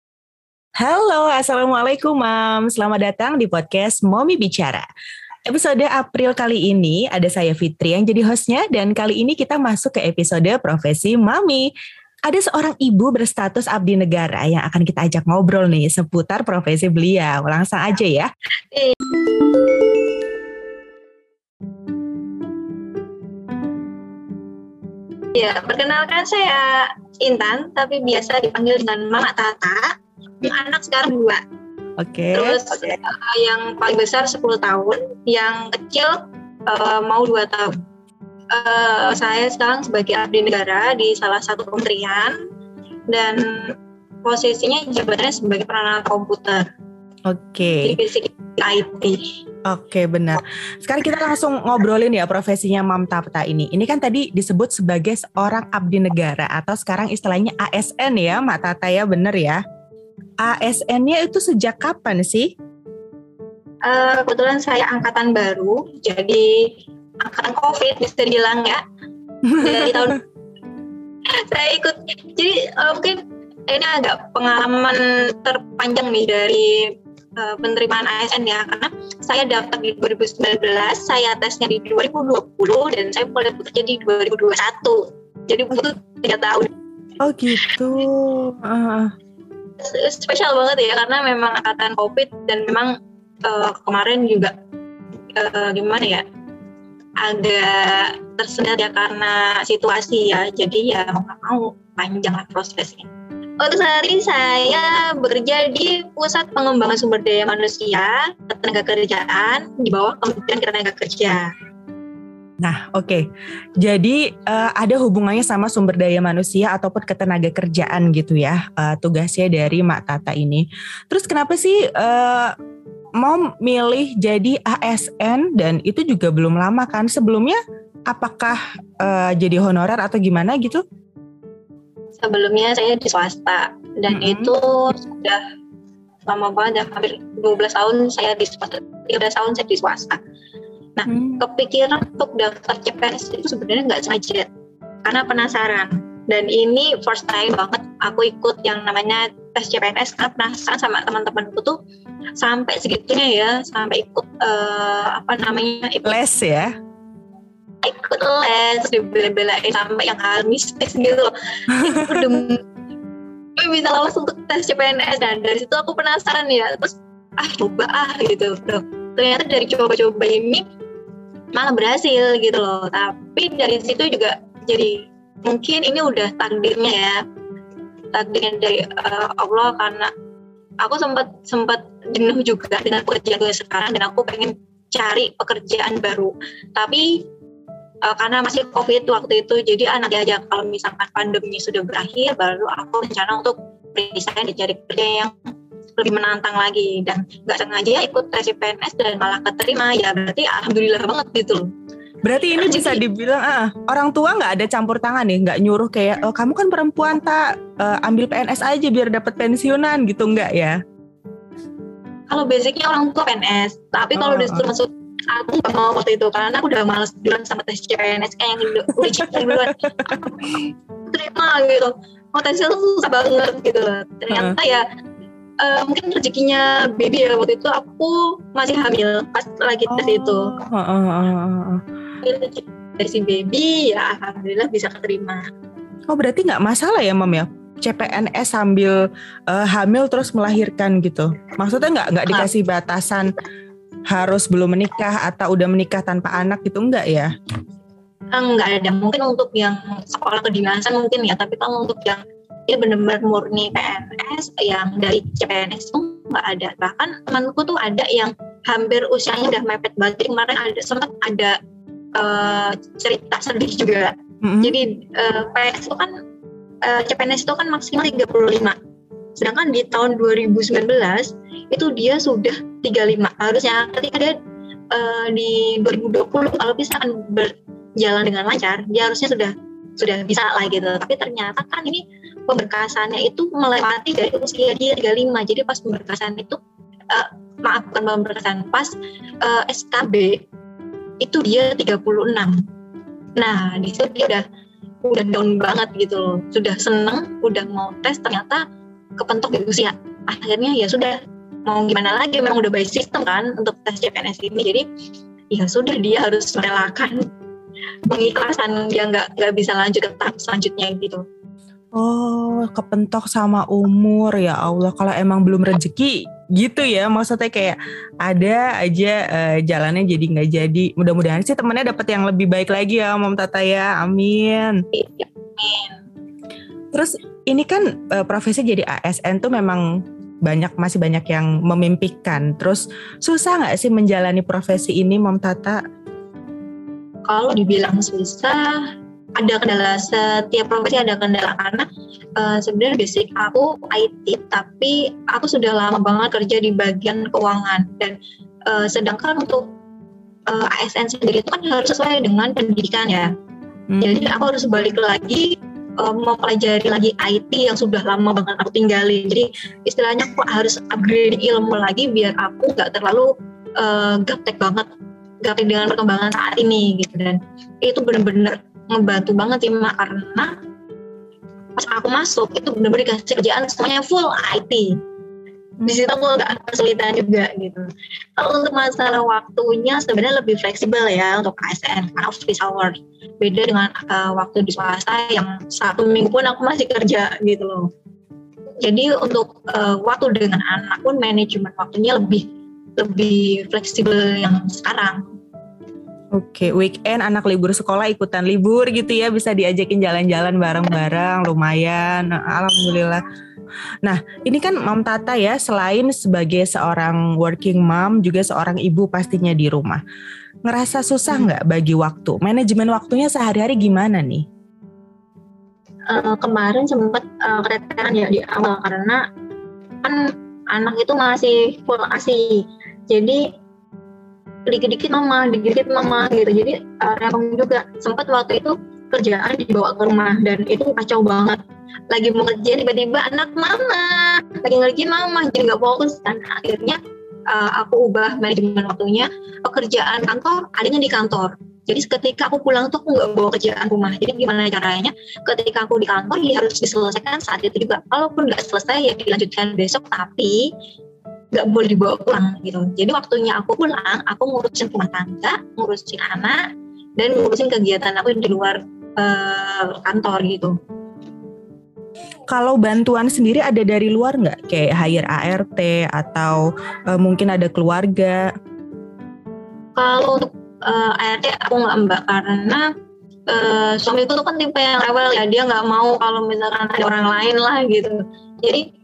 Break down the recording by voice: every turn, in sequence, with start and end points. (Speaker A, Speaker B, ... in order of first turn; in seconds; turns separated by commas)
Speaker A: 0.8-4.9, Speaker A: 5.5-11.7, Speaker A: 12.3-18.3, Speaker B: 18.7-19.1, Speaker B: 25.3-31.4, Speaker A: 32.0-32.6, Speaker B: 32.3-37.8, Speaker B: 38.5-42.4, Speaker B: 43.1-46.6, Speaker A: 47.3-48.0, Speaker B: 47.8-49.3, Speaker A: 49.7-59.6, Speaker A: 60.4-62.5, Speaker B: 63.8-68.8, Speaker A: 69.5-70.1, Speaker B: 69.5-70.2, Speaker B: 71.2-86.7, Speaker A: 87.2-89.1, Speaker B: 87.5-87.8, Speaker B: 89.8-94.5, Speaker B: 95.3-96.2, Speaker B: 97.2-111.5, Speaker A: 112.6-113.3, Speaker A: 113.8-122.5, Speaker A: 123.2-130.8, Speaker B: 132.2-135.4, Speaker A: 134.1-134.5, Speaker B: 136.3-140.2, Speaker B: 141.0-144.5, Speaker A: 141.1-141.4, Speaker B: 145.1-151.8, Speaker B: 152.4-156.2, Speaker A: 156.0-156.7, Speaker B: 157.8-162.6, Speaker A: 161.7-162.2, Speaker B: 163.6-170.6, Speaker B: 171.5-177.2, Speaker B: 178.1-180.1, Speaker B: 180.8-187.3, Speaker B: 188.1-201.7, Speaker A: 202.2-210.8, Speaker B: 202.4-203.0, Speaker B: 212.3-224.8, Speaker A: 214.1-214.7, Speaker A: 218.9-220.6, Speaker A: 224.3-224.6, Speaker B: 225.6-230.6, Speaker A: 229.9-231.8, Speaker B: 232.2-235.4, Speaker A: 236.1-243.3, Speaker A: 244.1-247.3, Speaker B: 248.3-261.6, Speaker B: 262.1-266.1, Speaker A: 264.4-264.8, Speaker B: 266.8-268.8, Speaker B: 269.4-274.4, Speaker B: 274.9-286.6, Speaker B: 287.1-290.4, Speaker B: 291.2-292.6, Speaker B: 293.4-294.4, Speaker B: 295.0-298.6, Speaker B: 299.2-304.9, Speaker B: 305.5-307.2, Speaker B: 308.1-311.2, Speaker A: 312.0-324.8, Speaker B: 324.9-326.0, Speaker A: 326.9-329.8, Speaker A: 330.4-335.8, Speaker B: 337.3-349.7, Speaker B: 350.5-353.3, Speaker A: 353.9-354.2, Speaker B: 354.0-364.9, Speaker B: 365.4-370.5, Speaker B: 371.8-375.0, Speaker B: 375.8-387.9, Speaker B: 388.8-392.4, Speaker B: 393.0-395.2, Speaker A: 396.3-403.2, Speaker A: 404.0-410.0, Speaker A: 410.7-414.4, Speaker B: 416.1-419.2, Speaker B: 420.0-423.4, Speaker B: 424.7-431.6, Speaker B: 432.1-450.7, Speaker B: 451.5-456.6, Speaker B: 457.2-460.7, Speaker A: 462.5-468.4, Speaker B: 470.0-472.9, Speaker B: 473.5-478.8